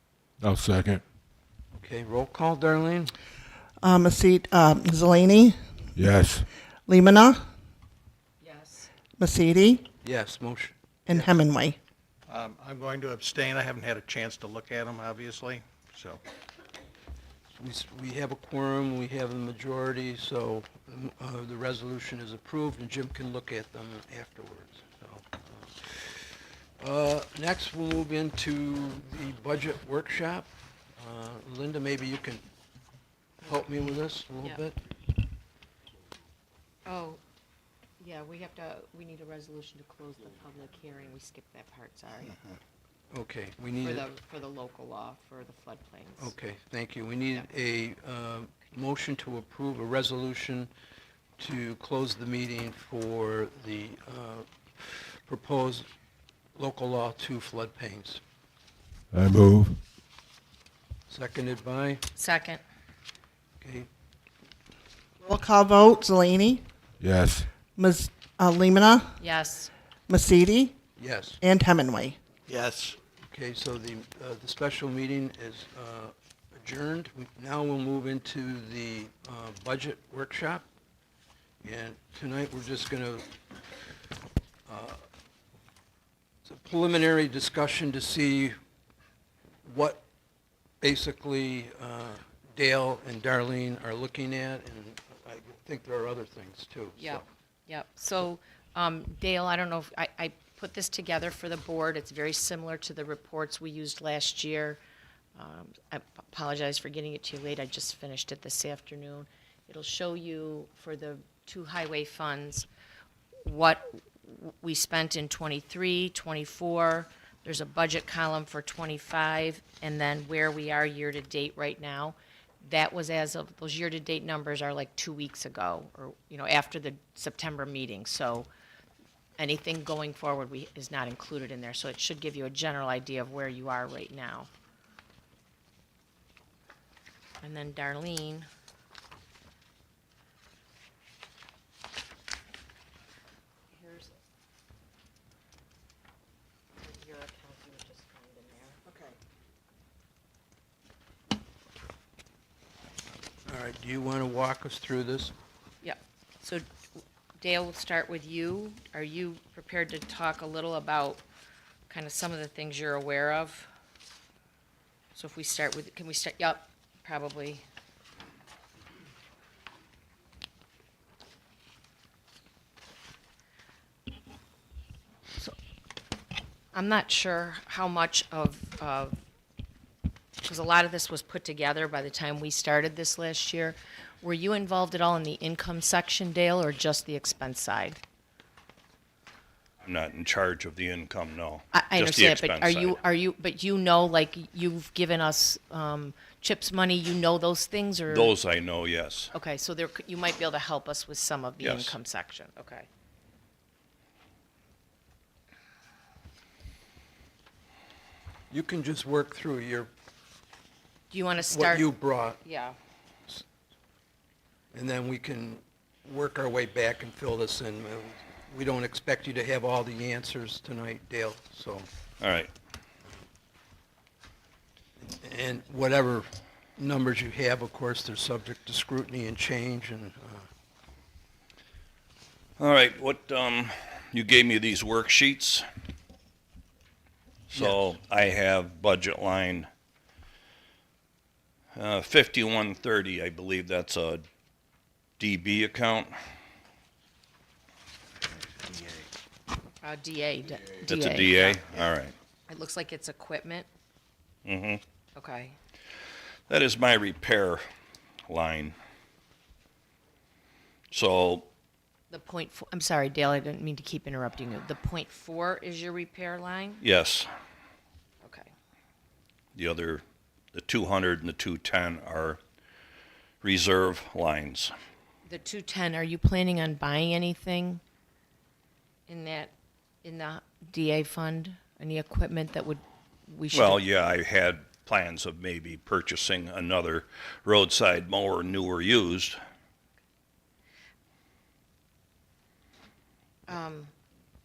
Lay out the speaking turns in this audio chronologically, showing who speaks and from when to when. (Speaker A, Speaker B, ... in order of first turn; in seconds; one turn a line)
Speaker A: 0.4-1.0
Speaker B: 1.8-3.1
Speaker C: 3.8-5.5
Speaker A: 6.0-6.5
Speaker C: 6.9-7.4
Speaker D: 8.4-8.9
Speaker C: 9.2-9.9
Speaker B: 10.0-11.3
Speaker C: 11.1-11.8
Speaker E: 12.3-16.2
Speaker B: 17.6-32.4
Speaker B: 33.5-34.8
Speaker D: 36.9-37.2
Speaker D: 38.0-42.4
Speaker B: 43.1-44.1
Speaker D: 43.8-46.3
Speaker B: 46.2-50.7
Speaker B: 51.4-55.9
Speaker B: 56.5-58.2
Speaker A: 59.1-59.8
Speaker B: 61.1-62.0
Speaker D: 62.2-62.6
Speaker B: 63.6-63.9
Speaker C: 65.2-66.6
Speaker A: 67.0-67.5
Speaker C: 67.7-69.2
Speaker D: 69.2-69.7
Speaker C: 70.1-70.8
Speaker B: 71.0-71.4
Speaker C: 71.4-72.2
Speaker E: 72.5-72.9
Speaker B: 73.2-80.7
Speaker B: 81.6-83.3
Speaker B: 84.7-85.0
Speaker B: 86.4-88.6
Speaker B: 89.6-90.0
Speaker B: 90.8-97.2
Speaker D: 97.0-104.8
Speaker D: 105.3-112.7
Speaker D: 113.4-128.5
Speaker D: 129.4-134.5
Speaker D: 137.4-138.5
Speaker D: 143.7-144.1
Speaker D: 146.8-149.1
Speaker B: 153.4-155.3
Speaker D: 155.8-156.7
Speaker D: 157.4-161.2
Speaker D: 161.9-163.7
Speaker D: 165.2-167.6
Speaker D: 176.7-179.2
Speaker D: 180.4-188.0
Speaker F: 189.8-193.0
Speaker D: 191.7-198.3
Speaker F: 198.1-199.3
Speaker D: 199.3-202.9
Speaker F: 201.6-202.0
Speaker B: 208.5-209.9
Speaker D: 211.1-211.9
Speaker B: 211.5-212.4
Speaker D: 212.4-212.8
Speaker B: 214.7-221.9
Speaker F: 222.2-222.5
Speaker B: 225.0-230.5
Speaker F: 232.6-235.7
Speaker F: 237.5-239.7
Speaker B: 237.5-237.8
Speaker F: 241.7-244.2
Speaker F: 245.2-246.2
Speaker D: 249.8-251.7
Speaker F: 250.8-252.2
Speaker D: 252.5-253.7
Speaker F: 254.4-254.8
Speaker D: 255.2-255.6
Speaker F: 256.5-257.6
Speaker F: 258.3-258.8
Speaker F: 260.9-261.5
Speaker D: 262.1-266.8
Speaker F: 266.8-267.3
Speaker D: 268.2-268.5
Speaker F: 269.6-272.4
Speaker F: 273.4-274.7
Speaker D: 275.3-277.8
Speaker D: 279.1-279.5
Speaker D: 280.0-283.8
Speaker F: 283.5-289.4
Speaker D: 293.5-293.9